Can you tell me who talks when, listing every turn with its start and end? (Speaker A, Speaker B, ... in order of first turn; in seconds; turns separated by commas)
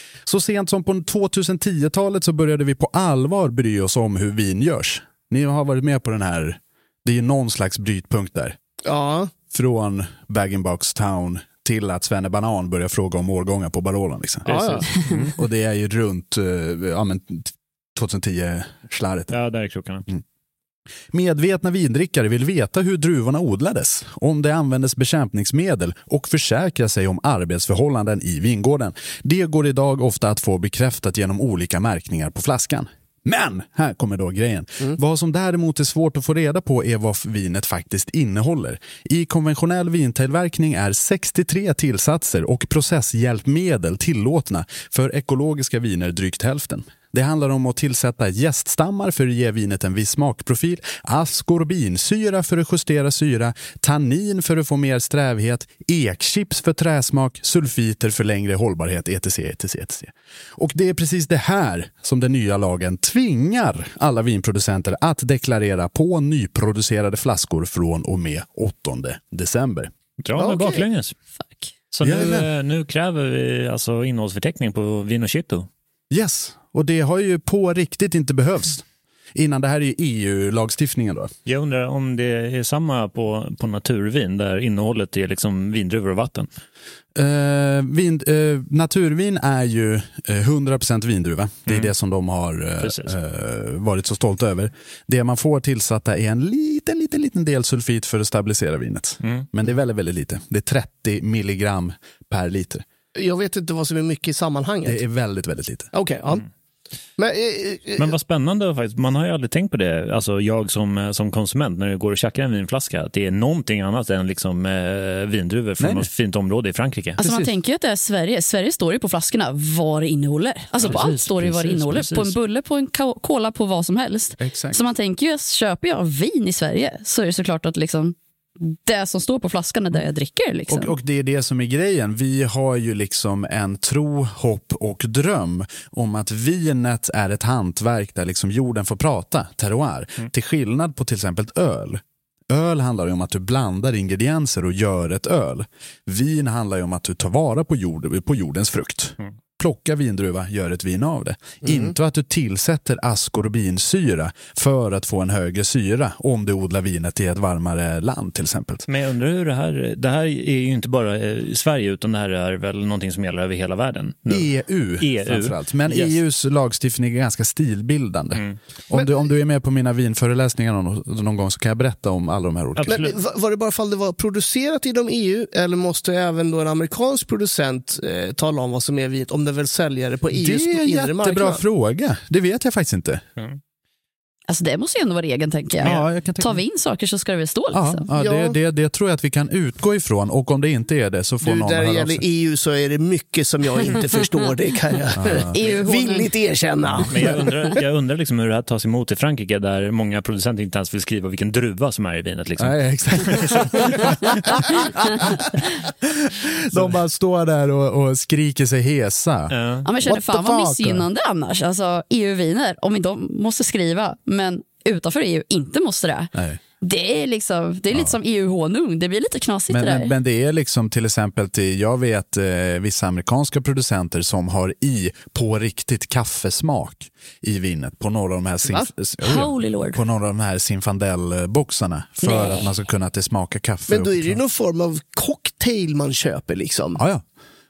Speaker A: 0.2-8.6, Speaker B: 8.8-9.3, Speaker A: 9.5-14.5, Speaker C: 14.4-15.3, Speaker B: 14.5-14.8, Speaker A: 15.3-19.3, Speaker C: 19.3-20.1, Speaker A: 21.1-69.9, Speaker C: 70.2-71.1, Speaker B: 70.3-70.8, Speaker C: 71.9-75.7, Speaker A: 72.0-72.5, Speaker A: 76.1-81.3, Speaker C: 81.5-86.5, Speaker A: 87.1-102.8, Speaker C: 92.8-93.1, Speaker B: 103.2-105.0, Speaker A: 104.8-105.9, Speaker B: 105.9-106.4, Speaker B: 107.2-108.1, Speaker C: 108.0-117.2, Speaker A: 115.8-116.1, Speaker A: 117.2-117.5, Speaker D: 117.2-130.9, Speaker C: 120.8-122.3, Speaker A: 124.4-124.8, Speaker A: 130.7-158.8, Speaker B: 151.6-151.9, Speaker C: 158.9-166.2, Speaker A: 164.3-173.0, Speaker C: 172.8-173.2, Speaker B: 172.9-181.6, Speaker A: 180.3-183.2, Speaker D: 184.5-188.0, Speaker A: 185.8-186.6, Speaker A: 187.7-192.2, Speaker B: 188.2-188.6, Speaker B: 191.4-197.4, Speaker A: 195.2-195.5, Speaker D: 195.5-196.3, Speaker C: 197.1-204.8, Speaker A: 202.6-205.3, Speaker A: 206.0-211.1, Speaker C: 206.7-207.0, Speaker C: 209.5-209.9, Speaker D: 209.8-220.1, Speaker A: 219.7-234.4, Speaker D: 229.2-230.0, Speaker D: 232.2-232.6, Speaker B: 233.9-237.0, Speaker A: 237.0-237.2